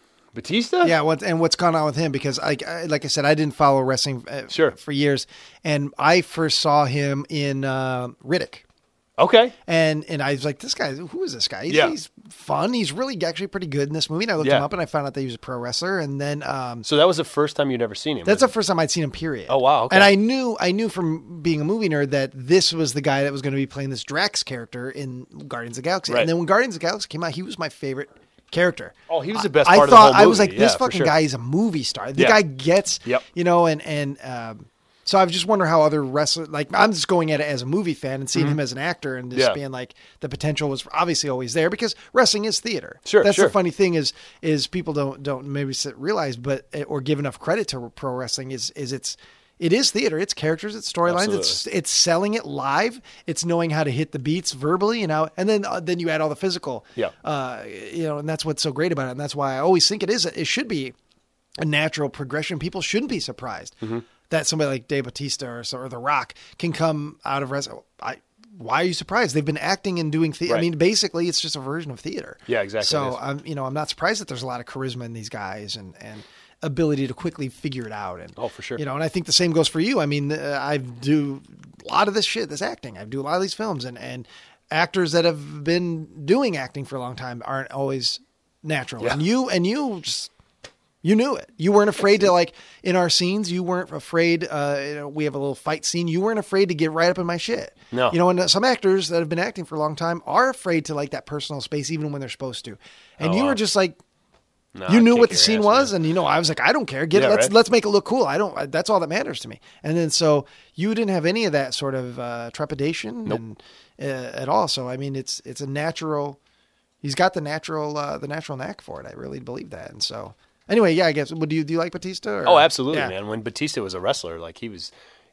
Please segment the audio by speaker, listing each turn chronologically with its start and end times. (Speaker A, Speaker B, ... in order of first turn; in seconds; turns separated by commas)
Speaker A: 0.3-0.9, Speaker B: 0.8-8.6, Speaker A: 4.5-4.8, Speaker A: 9.2-9.5, Speaker B: 9.7-16.9, Speaker A: 11.7-11.9, Speaker A: 14.4-14.7, Speaker A: 16.8-18.5, Speaker B: 18.2-60.9, Speaker A: 19.5-20.1, Speaker A: 29.1-31.1, Speaker A: 43.0-43.5, Speaker A: 51.0-51.6, Speaker B: 61.6-90.3, Speaker A: 72.5-73.2, Speaker A: 78.4-78.8, Speaker B: 91.0-104.0, Speaker A: 97.9-98.2, Speaker A: 103.2-103.6, Speaker A: 104.7-105.9, Speaker B: 104.9-116.4, Speaker A: 107.1-107.5, Speaker B: 117.0-123.1, Speaker A: 122.4-124.9